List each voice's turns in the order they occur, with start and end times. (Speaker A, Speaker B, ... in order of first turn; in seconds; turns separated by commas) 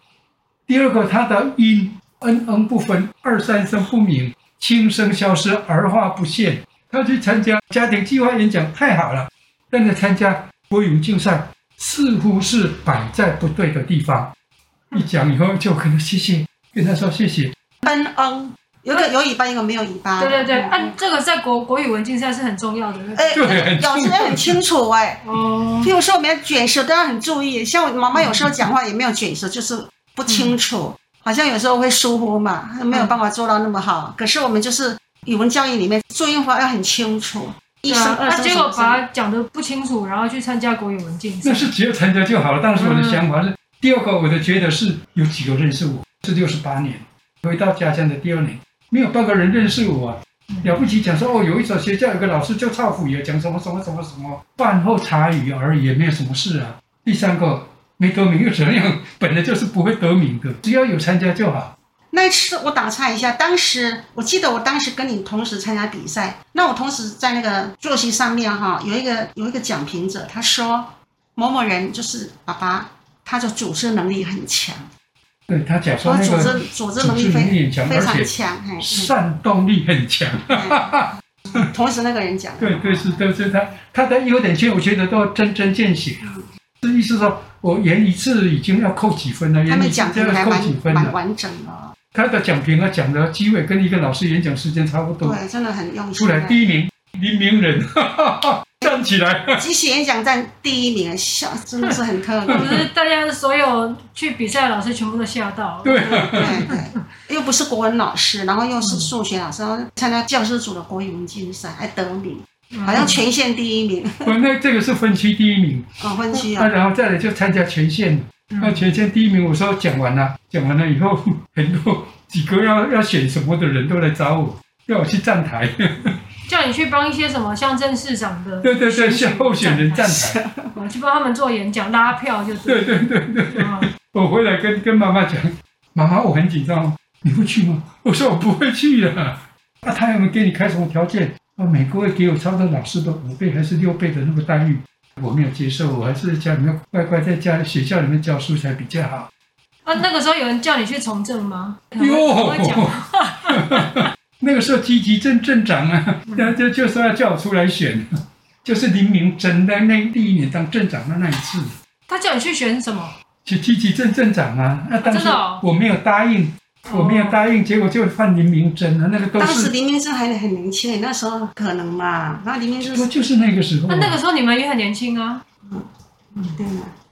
Speaker A: 0.7-14.3, Speaker A: 14.9-17.5, Speaker B: 17.8-20.9, Speaker C: 20.2-23.4, Speaker B: 23.1-25.2, Speaker A: 23.3-24.6, Speaker C: 25.2-25.9, Speaker B: 25.8-39.0, Speaker C: 28.1-28.6, Speaker C: 30.3-30.5, Speaker C: 37.9-41.7, Speaker A: 41.4-61.7, Speaker C: 42.7-43.2, Speaker B: 62.1-74.9, Speaker A: 75.5-78.3, Speaker B: 76.0-79.1, Speaker A: 78.8-81.6, Speaker B: 80.5-83.2, Speaker A: 82.6-86.3, Speaker A: 86.8-91.2, Speaker B: 89.7-91.9, Speaker A: 92.1-95.4, Speaker B: 95.2-96.6, Speaker A: 96.2-99.6, Speaker B: 99.5-102.8, Speaker C: 101.8-107.0, Speaker A: 102.5-102.8, Speaker A: 105.8-106.8, Speaker B: 106.3-114.3, Speaker C: 108.8-109.1, Speaker C: 112.7-113.2, Speaker A: 114.2-126.2, Speaker B: 116.0-116.7, Speaker C: 118.5-118.8, Speaker C: 126.5-133.9, Speaker A: 128.6-130.4, Speaker B: 130.1-130.7, Speaker A: 132.6-149.3, Speaker C: 149.8-154.1, Speaker A: 152.0-152.9, Speaker A: 153.5-158.1, Speaker C: 156.3-156.6, Speaker A: 158.6-161.7, Speaker C: 162.1-163.1, Speaker A: 163.4-169.7, Speaker C: 165.0-165.6, Speaker C: 166.9-167.4, Speaker B: 169.4-173.1, Speaker A: 172.8-174.2, Speaker C: 173.9-175.4, Speaker B: 176.4-176.9